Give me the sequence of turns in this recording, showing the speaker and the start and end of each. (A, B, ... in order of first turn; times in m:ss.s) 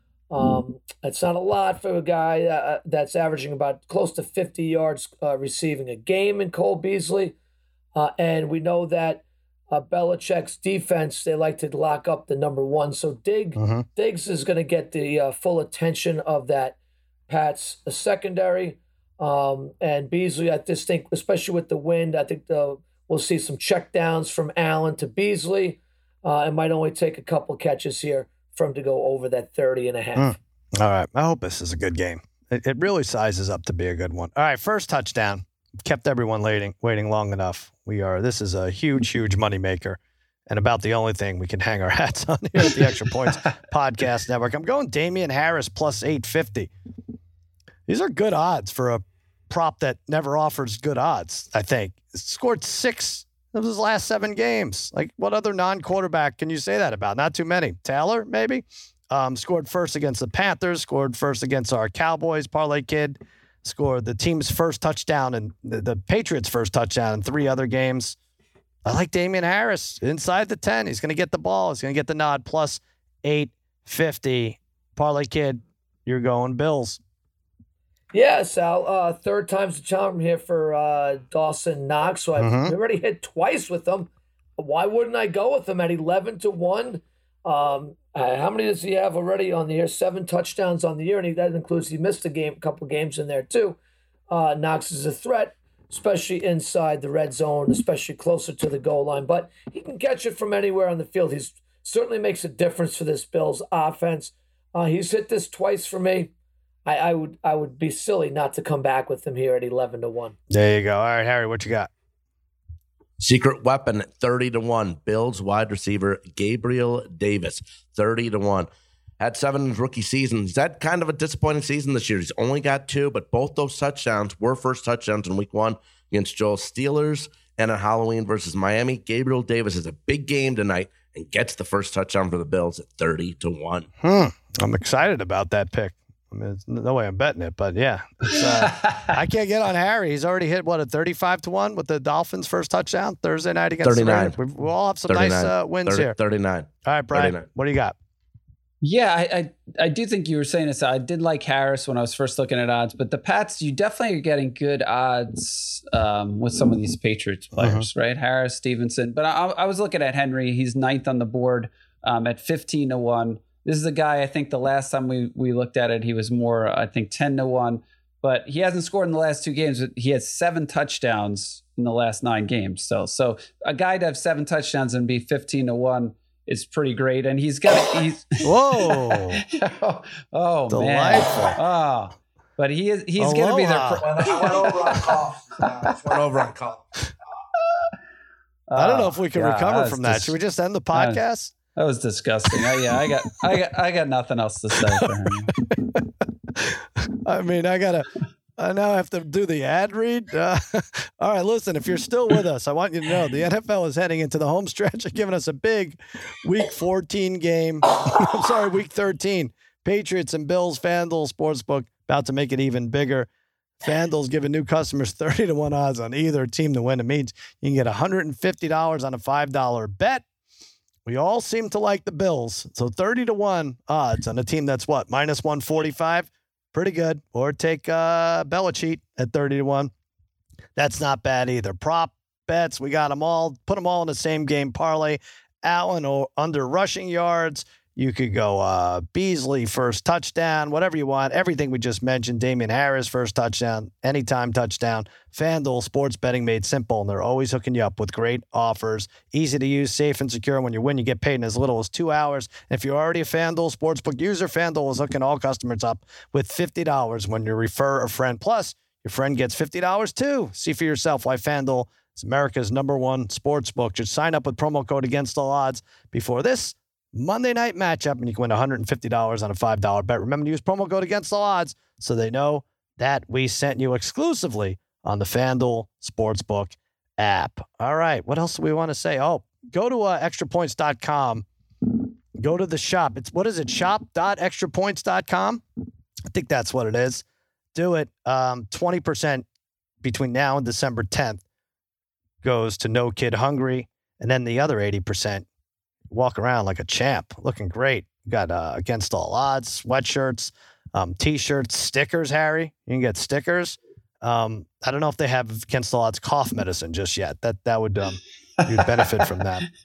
0:00.3-0:07.4 A
0:07.9-0:16.8 A
0:13.6-0:13.8 B
0:17.3-0:30.4 A
0:30.2-0:46.7 B
0:47.9-1:08.2 B
1:08.8-1:17.0 B
1:18.1-1:33.8 A
1:22.4-1:22.7 B
1:34.3-1:46.3 A
1:46.8-1:50.4 A
1:50.5-1:51.9 B
1:53.2-1:58.7 C
1:59.2-2:13.9 C
2:14.0-2:26.2 B
2:18.3-2:19.1 D
2:23.8-2:24.4 C
2:25.1-2:27.4 C
2:26.8-2:27.9 B
2:28.8-3:05.9 D
2:37.6-2:37.9 B
2:58.4-2:59.4 B
3:00.7-3:01.6 B
3:03.2-3:04.0 B
3:04.0-3:07.1 C
3:08.7-3:10.3 D
3:08.7-3:11.5 B
3:10.9-3:11.2 D
3:11.7-3:15.6 D
3:14.8-3:15.1 B
3:15.7-3:33.3 B
3:33.8-3:40.2 B
3:41.0-3:49.9 B
3:50.8-4:41.4 B
4:42.4-4:45.6 B
4:46.3-4:47.2 B
4:47.7-4:49.4 B
4:50.0-4:51.4 B
4:52.4-4:55.4 B
4:56.1-5:09.7 B
5:08.8-5:09.0 D